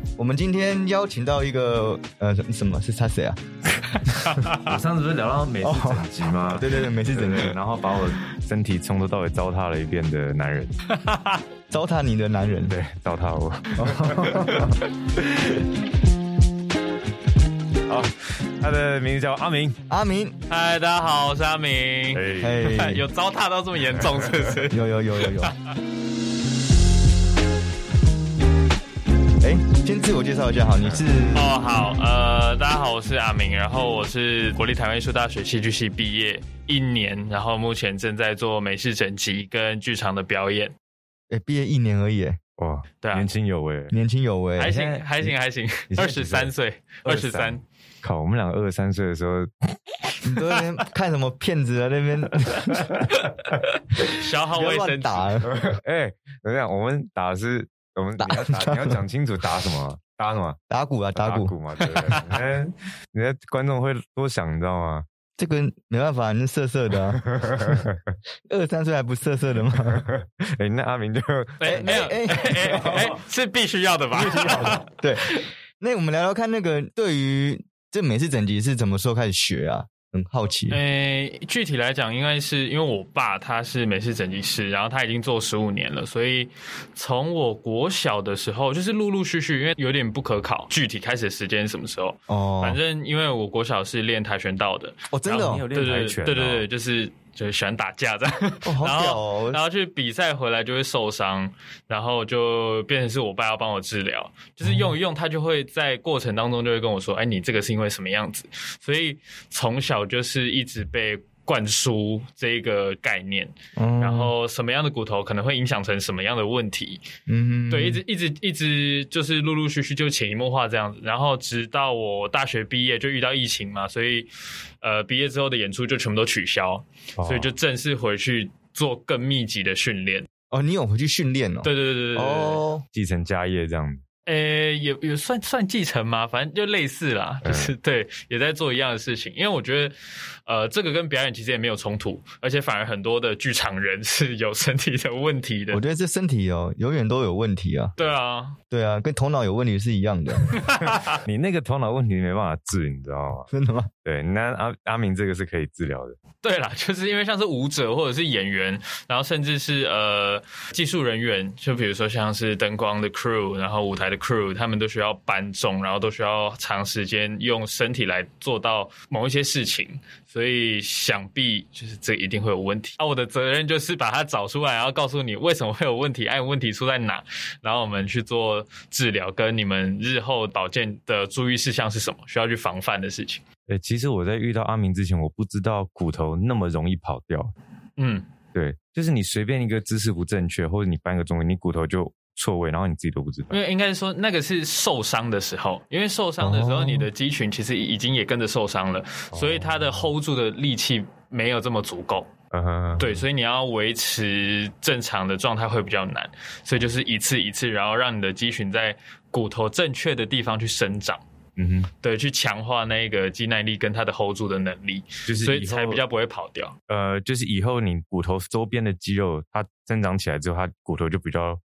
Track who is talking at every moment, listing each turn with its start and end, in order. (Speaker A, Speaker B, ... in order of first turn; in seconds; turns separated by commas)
Speaker A: 0.2-3.4, Speaker B: 4.0-10.8, Speaker C: 4.1-4.7, Speaker A: 5.6-7.6, Speaker C: 10.8-11.4, Speaker A: 11.7-12.8, Speaker B: 12.7-14.7, Speaker A: 13.7-14.8, Speaker B: 17.9-19.8, Speaker A: 19.9-20.4, Speaker C: 20.5-25.5, Speaker B: 22.1-22.7, Speaker A: 22.4-23.1, Speaker B: 24.0-24.5, Speaker A: 24.7-25.5, Speaker A: 29.4-31.5, Speaker C: 31.3-40.7, Speaker A: 41.3-42.4, Speaker B: 42.6-43.9, Speaker C: 43.0-43.3, Speaker A: 43.9-45.0, Speaker C: 44.6-47.6, Speaker A: 45.9-46.2, Speaker B: 46.0-46.5, Speaker B: 47.0-49.6, Speaker A: 50.2-53.1, Speaker C: 54.0-55.4, Speaker A: 54.5-55.5, Speaker B: 55.4-60.6, Speaker A: 58.2-59.0, Speaker A: 60.7-62.0, Speaker B: 61.2-65.0, Speaker C: 61.9-62.2, Speaker A: 65.4-67.8, Speaker B: 67.0-68.0, Speaker A: 68.5-70.0, Speaker B: 69.7-72.0, Speaker C: 71.6-75.5, Speaker A: 71.6-73.1, Speaker A: 74.1-80.8, Speaker C: 80.7-117.0, Speaker A: 92.3-92.8, Speaker A: 95.1-95.7, Speaker B: 95.2-96.7, Speaker A: 98.6-99.6, Speaker A: 113.8-114.3, Speaker A: 117.3-118.0, Speaker C: 117.7-130.3, Speaker B: 127.2-127.5, Speaker A: 130.5-132.8, Speaker C: 131.6-132.6, Speaker B: 132.9-134.0, Speaker C: 134.2-145.8, Speaker B: 137.4-137.7, Speaker A: 145.7-147.9, Speaker C: 148.0-148.6, Speaker A: 148.7-150.6, Speaker C: 150.5-151.2, Speaker B: 151.1-153.5, Speaker A: 153.5-153.9, Speaker B: 154.0-156.2, Speaker C: 156.4-183.4, Speaker B: 183.7-187.5, Speaker C: 188.0-188.2, Speaker B: 188.5-193.6, Speaker C: 193.5-202.3, Speaker A: 196.4-197.1, Speaker B: 199.3-200.0, Speaker B: 202.5-203.2, Speaker C: 203.0-211.2, Speaker B: 211.6-211.9, Speaker C: 212.0-216.7, Speaker B: 215.3-216.0, Speaker B: 216.9-221.6